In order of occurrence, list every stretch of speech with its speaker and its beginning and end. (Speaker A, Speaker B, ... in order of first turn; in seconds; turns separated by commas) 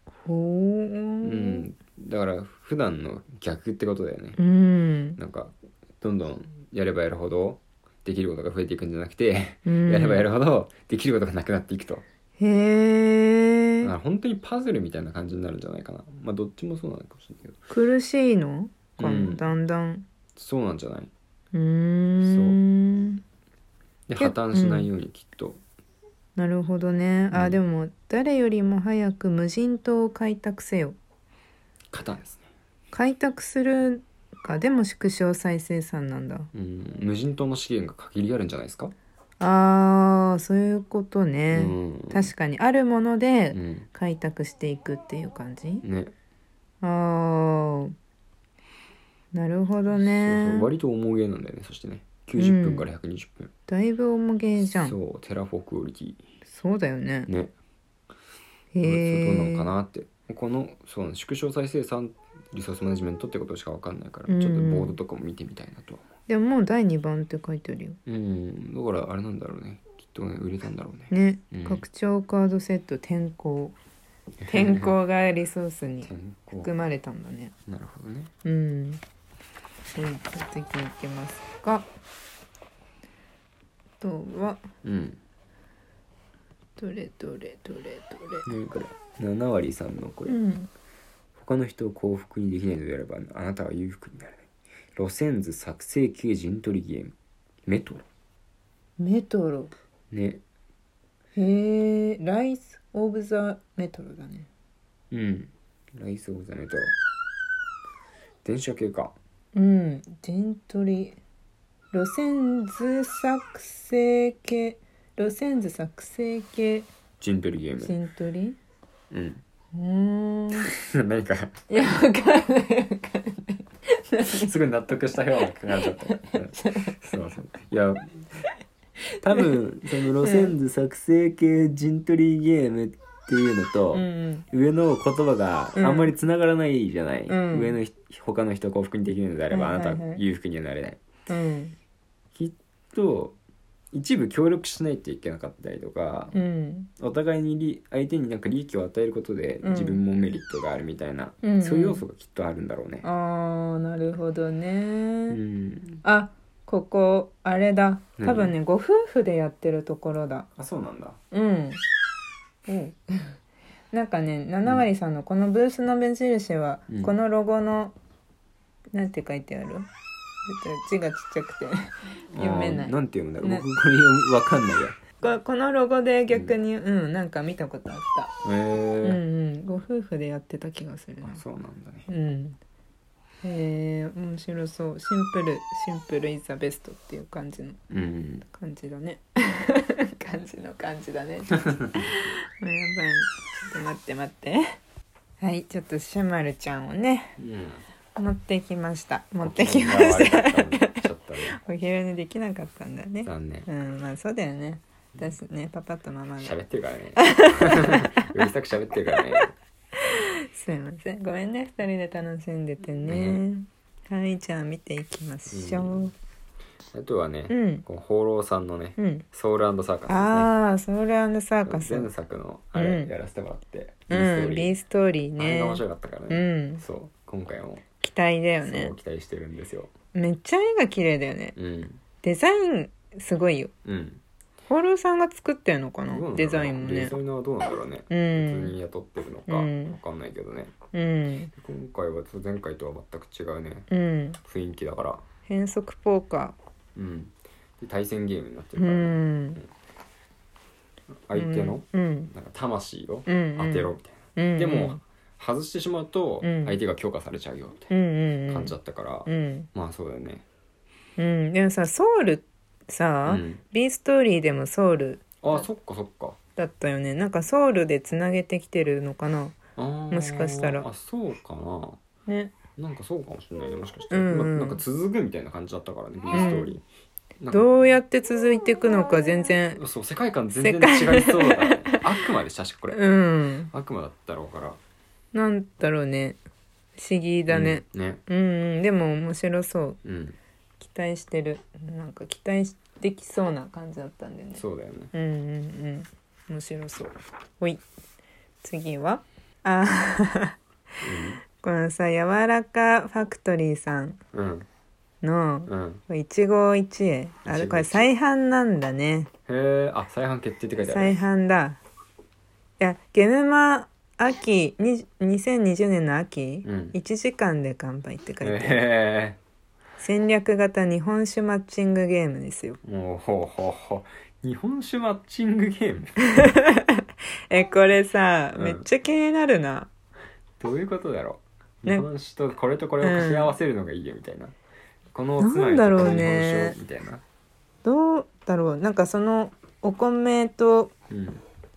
Speaker A: 0.2-1.6, Speaker B: 1.2-4.4, Speaker A: 4.4-5.2, Speaker B: 5.2-12.0, Speaker A: 9.7-10.2, Speaker A: 12.4-13.9, Speaker B: 13.8-17.6, Speaker A: 17.7-20.1, Speaker B: 19.0-19.5, Speaker B: 20.4-21.1, Speaker A: 21.5-23.2, Speaker B: 22.2-22.6, Speaker B: 24.1-25.6, Speaker A: 24.2-24.9, Speaker A: 26.4-31.0, Speaker B: 27.3-27.6, Speaker B: 31.9-32.5, Speaker A: 32.9-36.5, Speaker B: 36.5-38.9, Speaker A: 39.4-45.8, Speaker B: 41.5-42.3, Speaker B: 43.5-43.9, Speaker B: 45.8-46.1, Speaker A: 46.8-47.9, Speaker A: 49.3-50.7, Speaker B: 50.0-53.5, Speaker A: 52.4-52.9, Speaker A: 53.7-55.0, Speaker B: 54.7-56.2, Speaker A: 56.5-57.3, Speaker B: 57.3-57.5, Speaker A: 58.7-59.7, Speaker B: 58.8-66.0, Speaker A: 64.3-65.0, Speaker A: 66.3-68.0, Speaker B: 68.1-71.8, Speaker A: 71.1-73.8, Speaker B: 74.4-74.9, Speaker A: 74.5-77.5, Speaker B: 76.0-76.7, Speaker B: 77.7-78.3, Speaker A: 78.4-79.0, Speaker A: 79.9-81.9, Speaker A: 84.0-84.7, Speaker B: 84.8-85.2, Speaker A: 86.8-88.5, Speaker B: 88.5-90.4, Speaker A: 90.3-90.7, Speaker B: 91.3-97.1, Speaker B: 97.7-98.1, Speaker A: 99.0-99.7, Speaker B: 100.1-100.4, Speaker A: 101.4-104.5, Speaker B: 105.1-106.9, Speaker B: 108.4-109.1, Speaker A: 109.5-111.2, Speaker A: 111.9-116.9, Speaker B: 117.2-117.9, Speaker A: 117.8-118.6, Speaker B: 119.1-119.4, Speaker A: 119.7-120.7, Speaker B: 120.7-121.6, Speaker A: 121.7-124.5, Speaker B: 124.2-128.4, Speaker A: 125.7-126.9, Speaker B: 129.2-141.0, Speaker A: 129.3-130.5, Speaker A: 133.9-134.4, Speaker A: 135.8-136.1, Speaker A: 137.3-137.8, Speaker A: 139.5-140.2, Speaker A: 141.3-141.8, Speaker B: 142.3-143.4, Speaker B: 143.9-146.4, Speaker A: 146.3-146.9, Speaker B: 147.0-153.1, Speaker A: 149.6-150.0, Speaker A: 151.4-152.0, Speaker A: 153.0-155.4, Speaker B: 155.3-156.0, Speaker A: 156.0-160.5, Speaker B: 158.2-158.6, Speaker B: 160.6-161.2, Speaker A: 161.3-161.8, Speaker A: 162.7-163.4, Speaker A: 163.9-167.9, Speaker A: 168.9-169.9, Speaker A: 170.4-173.7, Speaker B: 172.3-175.0, Speaker A: 175.2-178.3, Speaker B: 176.3-176.6, Speaker B: 178.4-179.2, Speaker A: 179.0-181.4, Speaker B: 181.2-182.1, Speaker A: 182.1-182.6, Speaker A: 183.4-187.8, Speaker B: 187.9-188.4, Speaker A: 188.4-194.8, Speaker A: 195.4-197.3, Speaker B: 197.4-197.8, Speaker A: 198.2-206.6, Speaker B: 199.4-201.6, Speaker B: 203.2-203.7, Speaker B: 206.4-209.6, Speaker A: 207.2-208.3, Speaker A: 210.0-216.1, Speaker B: 213.1-213.4, Speaker B: 215.5-216.1, Speaker B: 216.9-220.5, Speaker A: 217.5-217.8, Speaker A: 219.0-219.2, Speaker A: 220.1-222.1, Speaker B: 221.6-224.8, Speaker A: 222.8-223.1, Speaker A: 224.1-226.8, Speaker B: 225.4-227.8, Speaker A: 228.0-228.9, Speaker B: 228.6-229.9, Speaker A: 230.1-231.6, Speaker B: 231.6-232.0, Speaker A: 232.2-233.7, Speaker B: 233.8-234.2, Speaker A: 234.7-237.2, Speaker B: 236.1-240.7, Speaker A: 238.1-238.8, Speaker A: 239.5-240.0, Speaker A: 240.9-241.5, Speaker B: 241.6-243.9, Speaker A: 243.9-244.4, Speaker B: 244.4-245.2, Speaker A: 245.4-246.6, Speaker B: 246.9-249.7, Speaker A: 248.8-249.6, Speaker B: 251.3-257.9, Speaker A: 251.3-252.3, Speaker A: 253.3-255.0, Speaker A: 256.4-256.8, Speaker A: 257.9-258.8, Speaker B: 258.5-260.4, Speaker A: 259.3-259.7, Speaker A: 261.2-265.7, Speaker B: 263.2-263.6, Speaker B: 265.4-266.4, Speaker A: 266.6-269.6, Speaker B: 269.8-272.0, Speaker A: 270.1-270.9, Speaker A: 272.3-272.6, Speaker B: 272.8-276.9, Speaker A: 274.1-274.8, Speaker A: 276.3-276.8, Speaker B: 277.4-277.7, Speaker A: 277.5-279.8, Speaker B: 279.8-283.0, Speaker A: 280.6-282.0, Speaker A: 282.9-283.7, Speaker B: 283.7-284.8, Speaker A: 285.3-286.4, Speaker A: 287.0-290.0, Speaker B: 287.5-288.2, Speaker B: 290.0-290.4, Speaker A: 290.8-294.6, Speaker B: 294.6-295.1, Speaker A: 295.1-297.8, Speaker A: 298.6-300.6, Speaker B: 301.0-301.4, Speaker A: 301.6-304.2, Speaker B: 304.3-304.7, Speaker A: 305.2-309.3, Speaker B: 305.7-306.0, Speaker B: 307.4-308.1, Speaker B: 309.5-311.2, Speaker A: 310.9-311.8, Speaker A: 312.8-318.8, Speaker B: 316.6-316.9, Speaker B: 318.4-319.4, Speaker A: 320.0-322.8, Speaker B: 322.8-326.2, Speaker A: 326.3-329.9, Speaker B: 328.6-328.8, Speaker B: 330.6-334.6, Speaker A: 333.0-333.6, Speaker B: 335.1-337.2, Speaker A: 335.4-336.8, Speaker A: 337.8-340.9, Speaker B: 341.1-341.4